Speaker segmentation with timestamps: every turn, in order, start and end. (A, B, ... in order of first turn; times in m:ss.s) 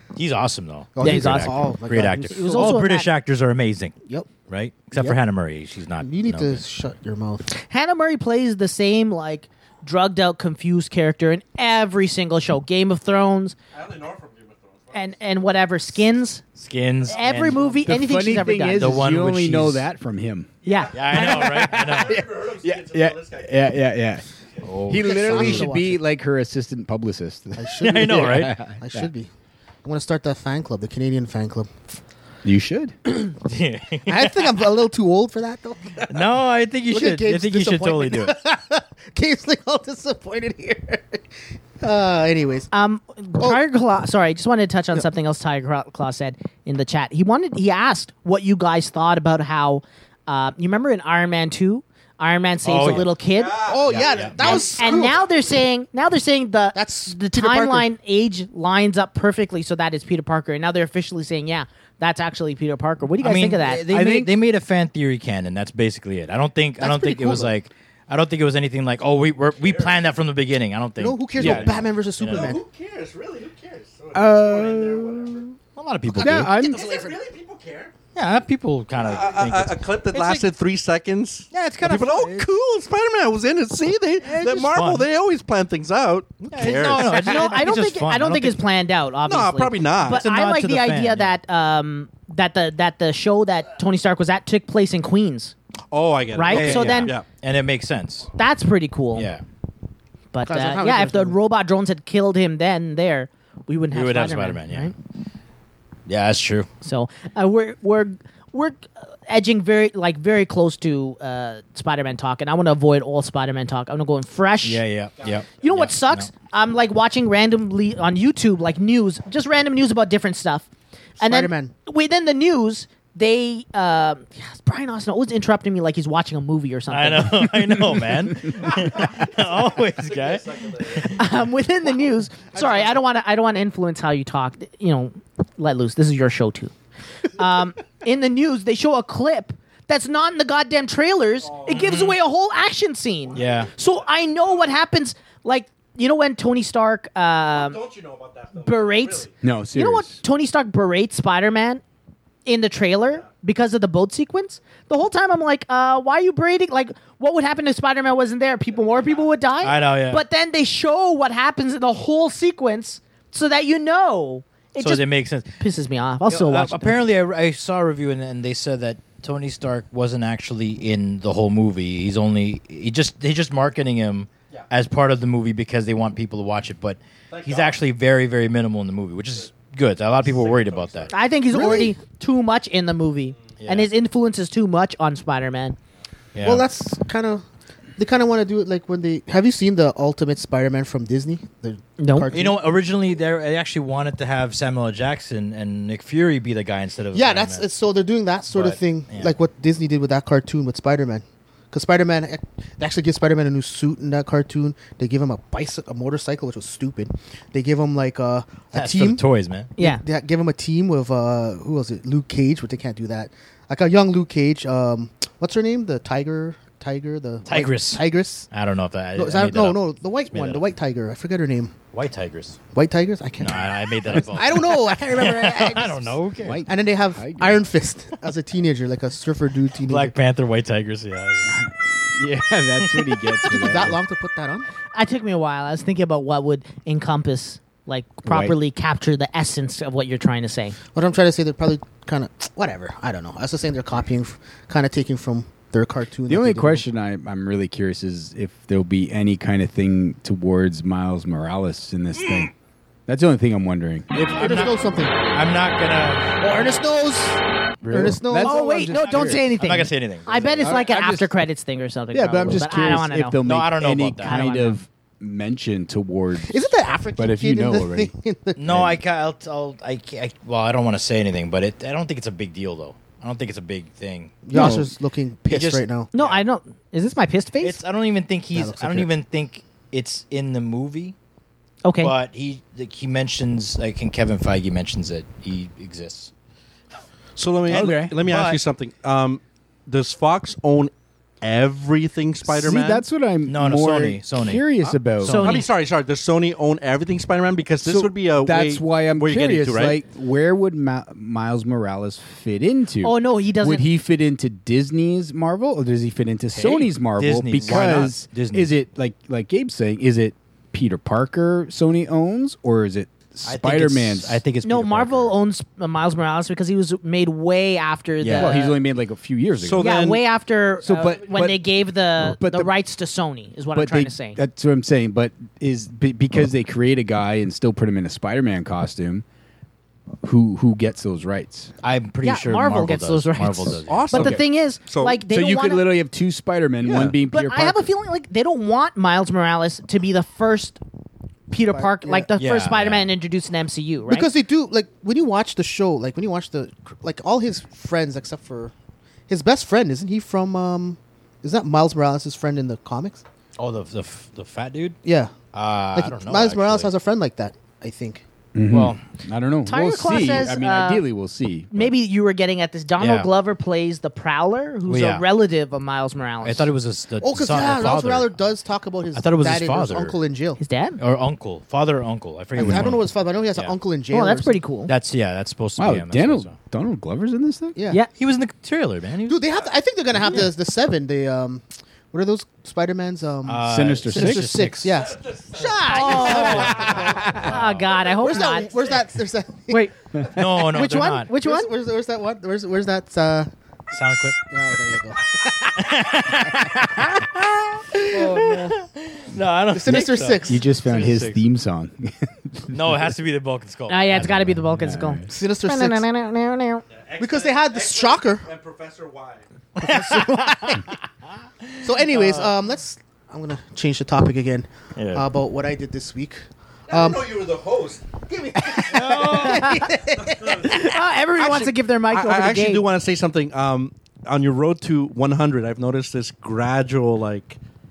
0:00.2-0:06.6 A
0:01.0-0:02.8 B
0:01.0-0:01.6 C
0:02.3-0:03.1 C
0:06.0-0:07.5 B
0:07.5-0:13.6 C
0:13.7-0:15.2 D
0:14.9-0:16.4 C
0:16.6-0:17.8 A
0:17.1-0:18.9 C
0:17.8-0:20.5 E
0:18.7-0:19.9 A
0:20.6-0:21.3 C
0:20.6-0:23.8 D
0:20.9-0:22.3 A
0:21.1-0:24.2 E
0:24.6-0:25.7 A
0:24.8-0:29.1 E
0:24.9-0:26.0 B
0:27.6-0:29.3 B
0:27.8-0:28.6 A
0:29.8-0:31.9 B
0:32.4-0:33.0 E
0:33.4-0:34.6 A
0:34.0-0:36.2 B
0:36.1-0:38.4 A
0:36.9-0:41.3 B
0:41.8-0:42.7 B
0:42.7-0:53.7 C
0:52.6-0:53.1 A
0:53.2-0:55.3 D
0:53.6-0:55.2 B
0:53.9-0:54.4 A
0:54.4-1:03.9 C
0:56.7-0:57.9 B
1:03.2-1:12.6 A
1:03.9-1:04.3 E
1:06.8-1:07.5 B
1:09.5-1:10.1 D
1:11.0-1:12.6 B
1:11.4-1:11.8 E
1:12.3-1:15.4 D
1:14.1-1:15.5 E
1:15.8-1:16.6 A
1:16.1-1:17.0 E
1:16.2-1:16.9 B
1:16.6-1:18.0 D
1:18.1-1:20.4 A
1:18.9-1:27.5 D
1:21.5-1:22.5 A
1:24.2-1:25.1 A
1:26.5-1:28.6 A
1:26.6-1:35.5 C
1:29.2-1:30.2 D
1:30.0-1:31.4 A
1:35.9-1:37.3 D
1:36.3-1:37.2 C
1:36.5-1:38.3 A
1:38.4-1:39.3 C
1:39.1-1:39.4 A
1:40.3-1:44.9 C
1:40.4-1:41.4 B
1:43.9-1:44.9 A
1:46.1-1:46.7 A
1:46.8-1:54.8 C
1:54.6-1:56.3 A
1:55.2-1:55.6 D
1:55.6-2:00.7 C
2:01.2-2:01.7 B
2:01.2-2:07.5 C
2:06.9-2:11.2 A
2:08.5-2:11.2 D
2:11.1-2:16.7 C
2:12.5-2:13.0 D
2:17.3-2:27.8 C
2:21.4-2:21.9 D
2:21.7-2:22.1 A
2:23.3-2:24.6 D
2:23.3-2:23.7 A
2:27.5-2:29.4 D
2:28.6-2:31.8 C
2:29.4-2:30.2 E
2:32.4-2:45.0 C
2:38.8-2:39.3 D
2:39.6-2:40.2 A
2:44.8-2:45.6 A
2:45.6-2:47.0 C
2:46.3-3:01.1 A
2:57.3-2:57.8 D
3:00.1-3:01.2 D
3:01.1-3:05.8 C
3:01.5-3:02.0 B
3:03.6-3:03.9 A
3:06.3-3:06.6 A
3:06.4-3:07.4 B
3:08.0-3:12.7 B
3:12.0-3:12.3 C
3:12.3-3:17.7 A
3:17.1-3:29.2 B
3:18.5-3:19.3 A
3:28.7-3:29.7 A
3:29.8-3:30.0 C
3:29.8-3:38.5 B
3:37.4-3:40.7 A
3:39.1-3:41.7 B
3:41.9-3:42.6 A
3:42.7-3:50.1 B
3:43.4-3:46.6 A
3:46.4-3:47.6 E
3:49.9-3:51.5 A
3:51.4-3:54.0 E
3:53.5-3:54.7 B
3:55.0-4:00.8 C
3:58.2-3:58.6 E
4:00.9-4:06.8 B
4:06.3-4:12.5 E
4:13.1-4:14.6 E
4:14.3-4:15.1 B
4:14.3-4:16.4 A
4:16.4-4:18.9 B
4:17.8-4:19.6 E
4:18.4-4:23.4 C
4:19.0-4:20.8 A
4:20.6-4:21.3 E
4:22.1-4:28.1 E
4:23.4-4:24.4 A
4:24.2-4:24.8 C
4:26.5-4:28.6 B
4:28.6-4:34.8 A
4:28.7-4:29.0 E
4:34.4-4:36.1 B
4:34.5-4:34.8 E
4:35.5-4:36.4 A
4:36.1-4:37.8 C
4:37.6-4:41.1 A
4:38.5-4:39.1 B
4:41.8-4:42.1 C
4:42.0-4:46.3 A
4:47.4-4:53.0 D
4:47.7-4:48.2 E
4:47.7-4:48.6 A
4:52.4-4:55.4 E
4:53.4-4:55.7 A
4:55.2-4:55.6 C
4:55.4-5:00.0 D
4:57.8-5:14.4 E
5:03.0-5:03.9 C
5:06.5-5:08.7 A
5:13.4-5:15.4 A
5:14.6-5:18.8 C
5:18.2-5:18.6 A
5:18.3-5:20.0 E
5:19.6-5:20.2 D
5:19.8-5:24.4 C
5:20.8-5:22.7 E
5:23.7-5:29.2 E
5:30.2-5:31.7 E
5:31.8-5:34.4 A
5:32.2-5:35.9 C
5:33.9-5:35.2 D
5:35.3-5:37.9 E
5:37.3-5:40.8 C
5:41.5-5:44.3 C
5:41.7-5:42.3 B
5:42.4-5:43.1 A
5:44.1-5:48.7 B
5:49.3-5:53.2 B
5:53.6-5:55.0 A
5:55.0-5:55.4 B
5:55.5-5:56.9 A
5:55.9-5:58.2 B
5:58.5-6:01.9 E
5:58.7-5:59.0 A
5:59.7-6:01.0 C
6:01.7-6:06.7 C
6:03.0-6:03.3 A
6:04.9-6:05.2 A
6:06.4-6:08.4 A
6:07.2-6:10.6 B
6:09.1-6:10.2 A
6:10.6-6:11.0 C
6:11.0-6:13.7 A
6:12.6-6:14.6 B
6:12.6-6:12.9 E
6:14.1-6:14.9 C
6:14.9-6:16.6 A
6:15.8-6:17.8 E
6:17.7-6:18.0 B
6:18.2-6:19.4 A
6:19.3-6:27.4 B
6:23.4-6:25.0 A
6:23.6-6:24.7 E
6:25.0-6:26.6 D
6:25.6-6:28.7 C
6:26.0-6:27.8 A
6:28.2-6:33.5 B
6:30.3-6:31.3 A
6:30.7-6:31.7 C
6:33.9-6:34.4 A
6:34.5-6:36.2 B
6:35.8-6:41.4 A
6:38.1-6:38.7 B
6:39.7-6:40.6 B
6:40.5-6:43.1 E
6:42.7-6:44.6 A
6:43.9-6:46.8 C
6:44.7-6:45.3 E
6:45.3-6:46.0 B
6:46.9-6:49.4 D
6:47.2-6:48.5 B
6:49.8-6:50.9 B
6:49.8-6:50.5 A
6:51.8-6:57.5 B
6:52.0-6:52.5 A
6:55.0-6:55.3 A
6:56.9-6:58.6 D
6:58.5-7:00.9 B
6:58.9-6:59.8 A
6:59.2-6:59.8 C
7:00.2-7:00.7 D
7:00.6-7:02.9 C
7:01.3-7:07.6 D